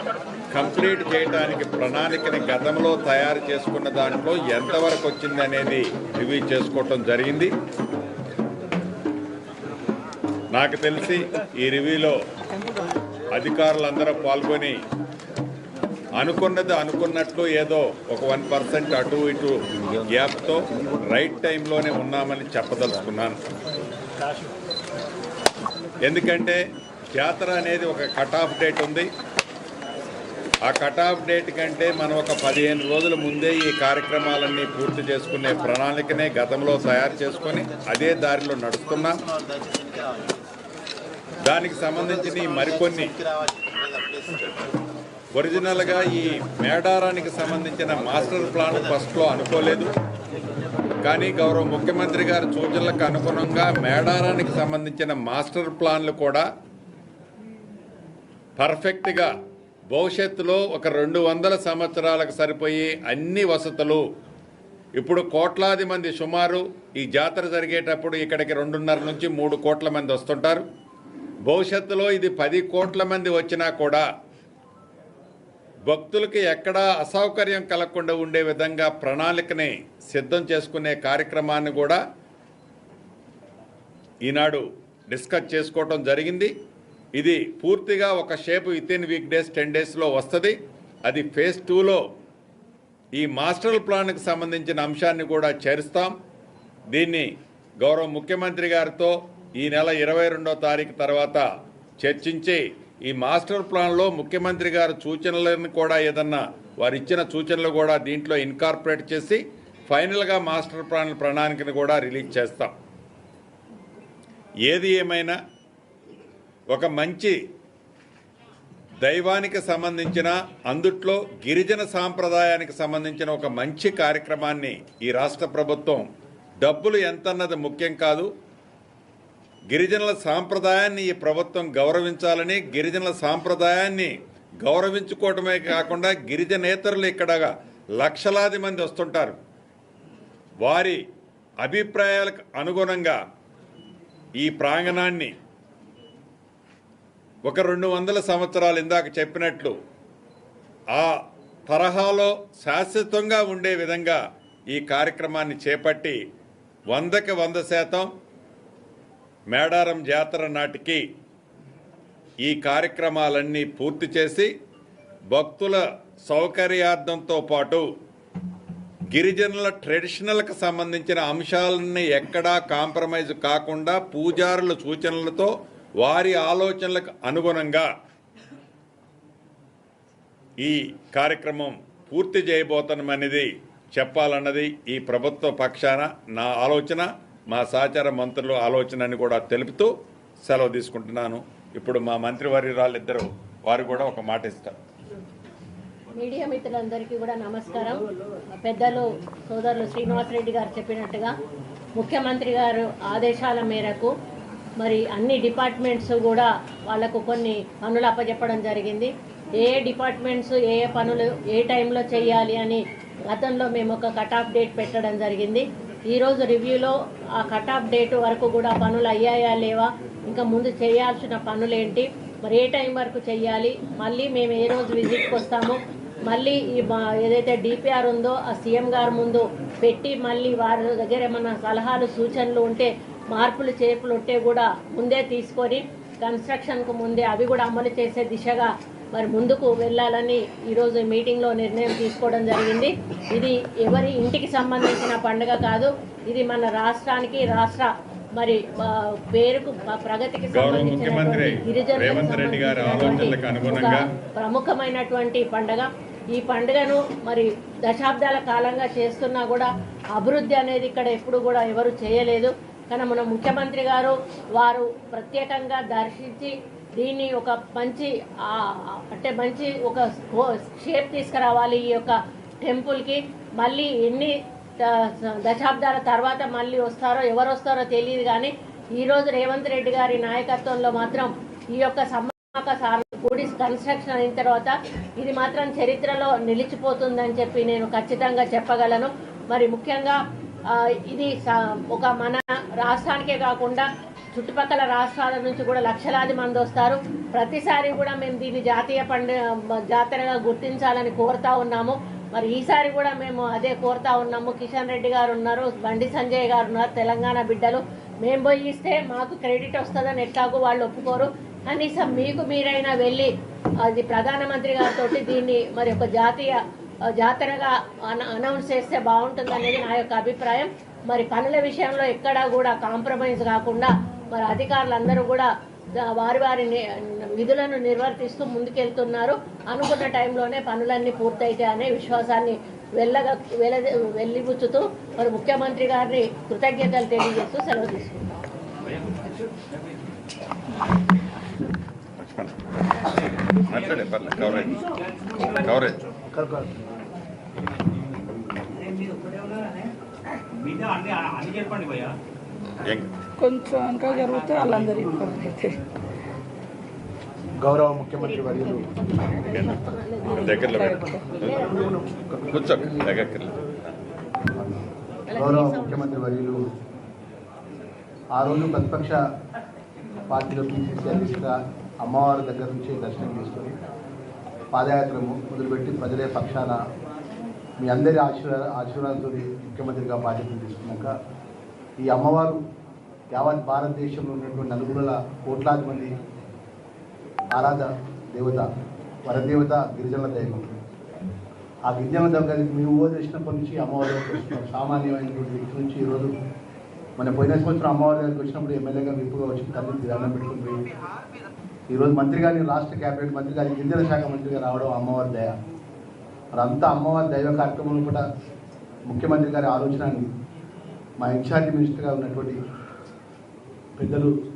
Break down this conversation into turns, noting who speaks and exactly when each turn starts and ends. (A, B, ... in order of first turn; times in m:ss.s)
0:00.5-0:07.5 A
0:10.5-0:12.2 A
0:13.4-0:14.7 A
0:16.2-0:23.4 A
0:26.0-0:26.6 A
0:27.1-0:29.1 A
0:30.6-0:39.2 A
0:41.4-0:43.2 A
0:45.3-0:49.9 A
0:51.0-0:56.5 A
0:58.6-0:59.3 A
0:59.9-1:04.0 A
1:05.0-1:10.6 A
1:11.4-1:14.0 A
1:15.9-1:22.0 A
1:24.2-1:26.5 A
1:27.2-1:32.0 A
1:33.2-1:36.1 A
1:36.9-1:41.4 A
1:42.0-1:52.7 A
1:54.7-1:55.4 A
1:56.7-1:57.4 A
1:59.0-2:06.1 A
2:06.6-2:08.3 A
2:09.7-2:19.4 A
2:20.6-2:21.0 A
2:21.6-2:23.2 A
2:24.4-2:25.3 A
2:27.4-2:29.8 A
2:31.7-2:36.2 A
2:36.9-2:38.1 A
2:39.5-2:41.0 A
2:42.4-2:44.5 A
2:45.3-2:47.9 A
2:49.1-2:57.9 A
3:00.6-3:14.7 A
3:16.2-3:18.0 B
3:18.6-3:21.3 B
3:22.0-3:24.1 B
3:24.8-4:50.2 B
4:10.5-4:14.0 A
4:50.7-5:13.3 B
5:13.8-5:16.6 B
5:17.2-5:25.5 B
5:26.0-5:38.4 B
5:42.2-5:42.5 A
5:43.6-5:44.8 A
5:45.3-5:46.1 A
5:46.3-5:46.8 C
5:52.8-5:53.1 A
5:53.4-5:55.8 D
5:57.6-5:58.9 C
5:59.4-5:59.8 A
5:59.8-6:00.4 B
6:00.2-6:01.3 D
6:00.3-6:01.7 A
6:01.6-6:03.0 C
6:02.5-6:03.9 A
6:04.5-6:06.6 C
6:05.3-6:06.0 B
6:08.3-6:09.2 C
6:10.3-6:13.7 C
6:14.7-6:16.8 C
6:17.8-6:21.1 C
6:22.0-6:22.6 C
6:23.3-6:26.1 C
6:27.5-6:28.6 C
6:29.2-6:30.8 C
6:31.9-6:36.3 C
6:37.2-6:40.8 C
6:41.9-6:45.5 C
6:46.6-6:48.2 C
6:49.1-6:50.3 C
6:51.2-6:52.6 C
6:54.0-6:54.3 C